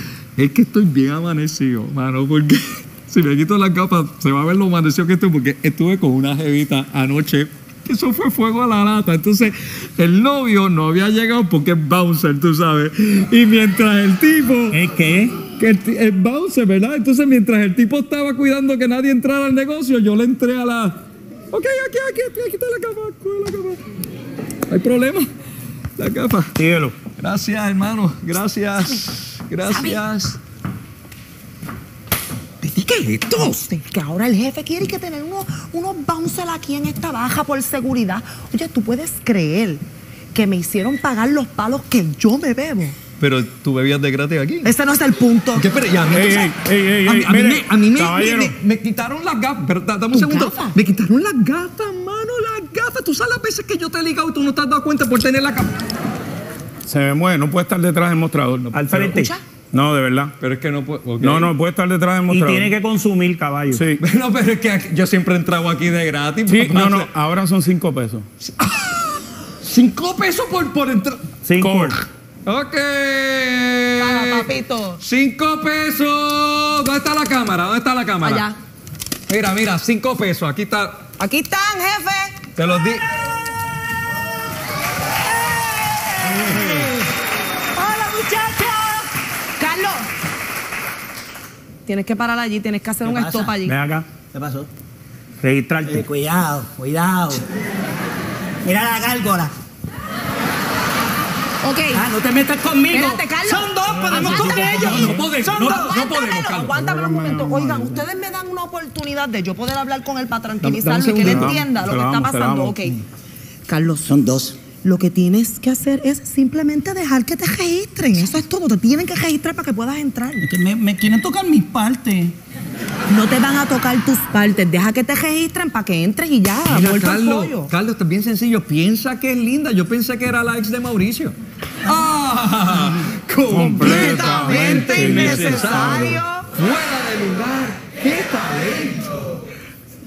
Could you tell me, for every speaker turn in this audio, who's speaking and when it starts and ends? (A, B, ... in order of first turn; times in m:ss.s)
0:00.4-0:14.9 A
0:14.7-0:15.3 B
0:15.6-0:21.0 A
0:21.5-0:23.8 A
0:24.7-0:25.3 A
0:26.0-0:26.6 A
0:26.6-0:26.9 B
0:27.2-0:30.4 A
0:29.6-0:30.0 C
0:32.6-0:39.8 C
0:40.3-0:43.0 C
0:43.2-0:44.7 A
0:44.6-0:45.7 C
0:45.5-0:55.7 A
0:46.1-0:48.5 D
0:50.1-0:50.7 C
0:56.8-1:00.3 D
0:58.7-0:59.3 B
1:00.4-1:01.5 A
1:01.2-1:02.7 D
1:02.3-1:03.8 B
1:03.7-1:04.0 D
1:04.0-1:07.1 A
1:06.5-1:08.3 D
1:09.6-1:11.2 A
1:11.4-1:12.0 B
1:11.6-1:12.0 D
1:12.4-1:14.5 A
1:14.0-1:15.0 C
1:15.0-1:18.5 A
1:18.2-1:18.5 C
1:19.3-1:21.0 A
1:21.2-1:22.4 C
1:22.6-1:23.1 A
1:26.5-1:26.9 E
1:26.5-1:26.8 D
1:27.7-1:29.0 C
1:29.6-1:30.1 C
1:31.8-1:33.8 C
1:33.0-1:33.5 E
1:33.6-1:34.1 B
1:34.3-1:34.7 E
1:35.4-1:36.0 B
1:35.8-1:37.4 E
1:38.6-1:39.5 E
1:41.6-1:42.0 C
1:41.9-1:46.1 E
1:42.9-1:53.0 C
1:44.2-1:46.7 A
1:46.7-1:48.0 D
1:50.9-1:52.9 D
1:53.7-2:00.5 C
1:54.1-1:54.6 E
2:00.4-2:02.3 E
2:03.1-2:07.7 C
2:06.7-2:19.1 A
2:13.5-2:16.0 D
2:13.6-2:16.4 C